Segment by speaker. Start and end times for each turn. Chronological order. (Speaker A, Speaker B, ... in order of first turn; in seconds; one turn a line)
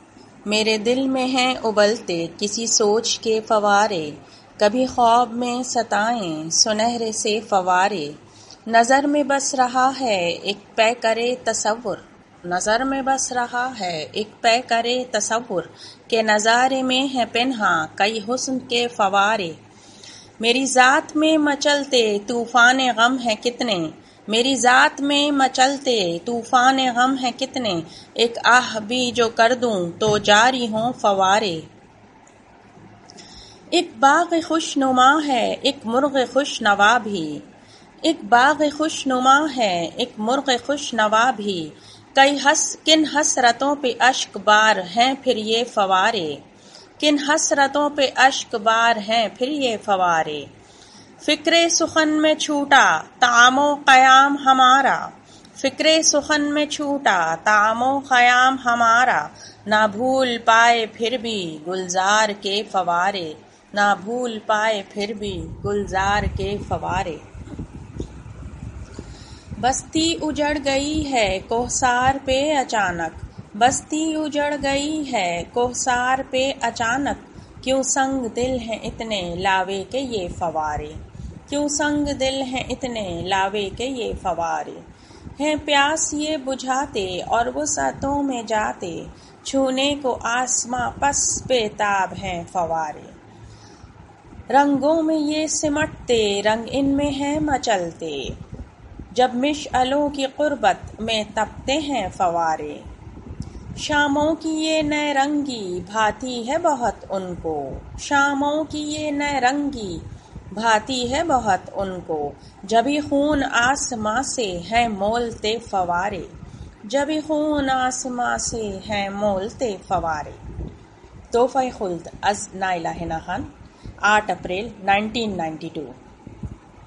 Speaker A: 0.5-8.2
Speaker A: 8.7-19.6
Speaker A: 20.4-31.6
Speaker A: 33.7-37.4
Speaker A: 38.0-46.4
Speaker A: 47.0-50.5
Speaker A: 51.2-67.2
Speaker A: 69.6-81.0
Speaker A: 81.5-84.8
Speaker A: 85.4-93.1
Speaker A: 94.5-98.3
Speaker A: 99.1-102.8
Speaker A: 103.8-116.3
Speaker A: 116.9-120.4
Speaker A: 121.3-123.5
Speaker A: 124.0-125.9